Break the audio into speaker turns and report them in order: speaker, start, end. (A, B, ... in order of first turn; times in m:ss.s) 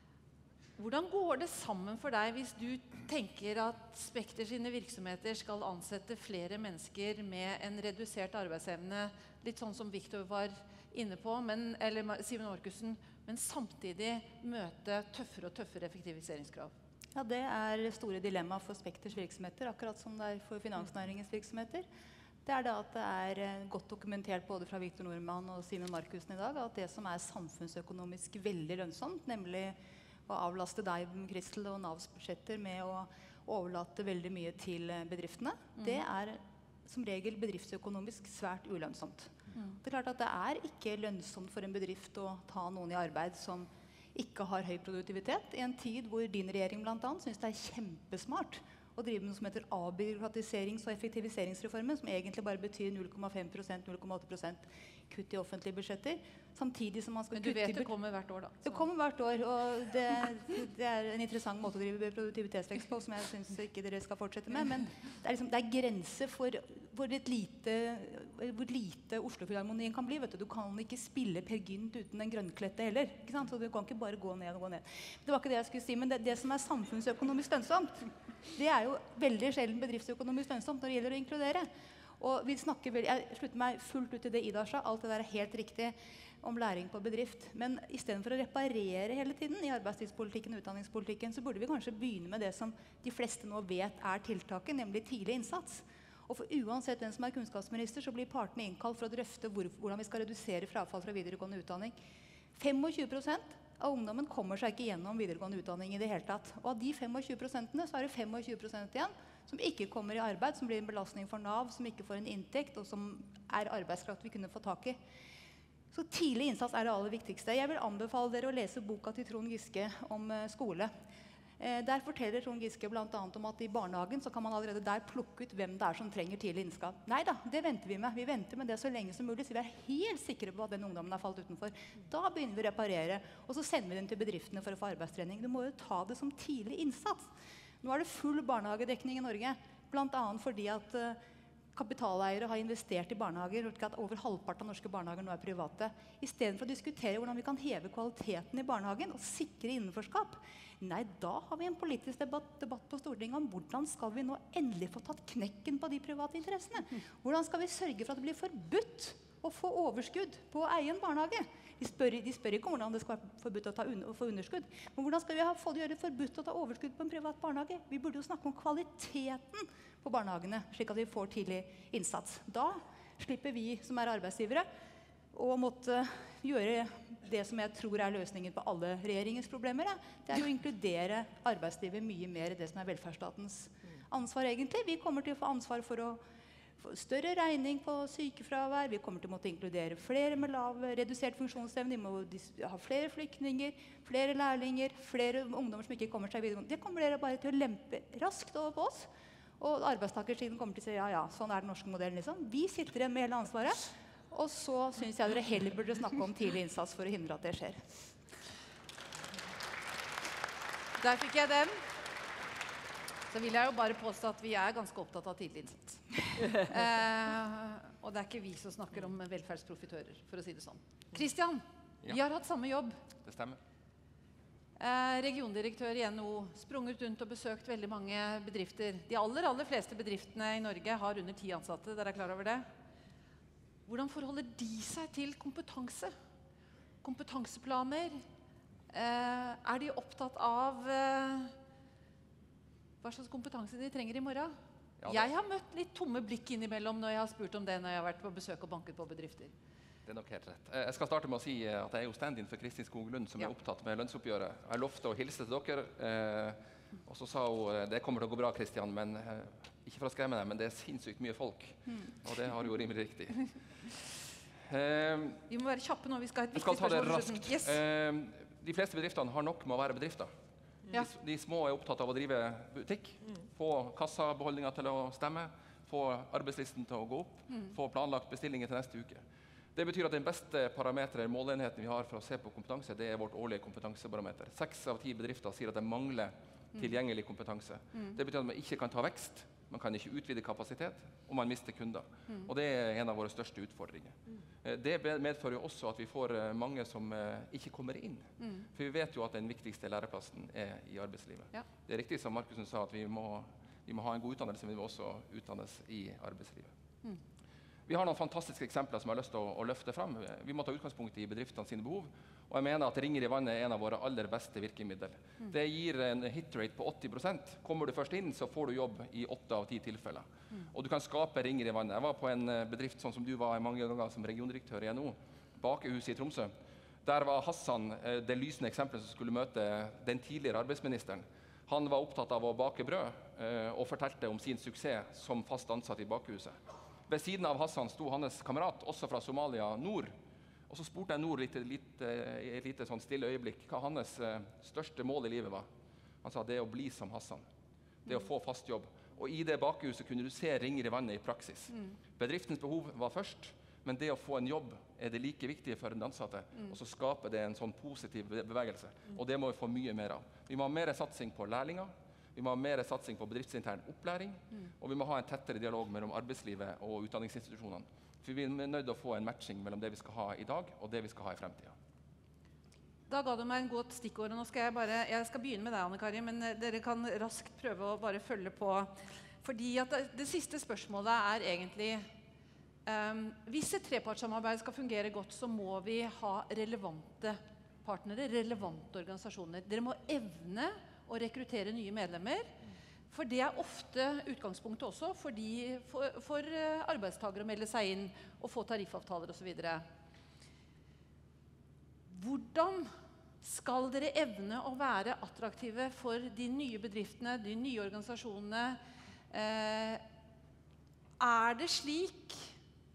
0:00.8-0:16.7 A
0:17.1-0:21.8 B
0:22.4-0:57.9 B
0:57.3-0:58.8 A
0:58.6-1:41.9 B
1:42.6-1:55.0 B
1:55.9-2:00.9 B
2:01.6-2:17.3 B
2:17.8-2:21.2 B
2:21.7-2:54.7 B
2:55.3-3:06.2 B
3:06.8-3:27.9 B
3:31.0-3:31.8 A
3:33.3-3:43.0 A
3:43.2-3:43.6 C
3:44.8-3:52.6 A
3:53.8-3:56.1 A
3:57.0-3:58.2 A
3:58.9-4:01.5 A
4:03.0-4:04.5 A
4:05.0-4:05.3 C
4:05.0-4:09.5 A
4:10.0-4:23.6 C
4:24.6-4:25.4 C
4:25.5-4:27.8 A
4:26.5-4:30.3 C
4:30.9-4:39.2 C
4:39.7-5:06.7 C
4:58.4-4:58.6 A
5:07.9-5:26.5 C
5:27.0-5:40.1 C
5:40.7-5:45.7 C
5:46.2-5:47.4 C
5:48.0-6:11.7 C
6:13.1-6:22.1 A
6:22.8-6:32.5 A
6:33.1-6:39.8 A
6:42.1-6:42.9 A
6:43.4-6:48.8 A
6:49.3-6:50.0 A
6:51.2-6:52.5 A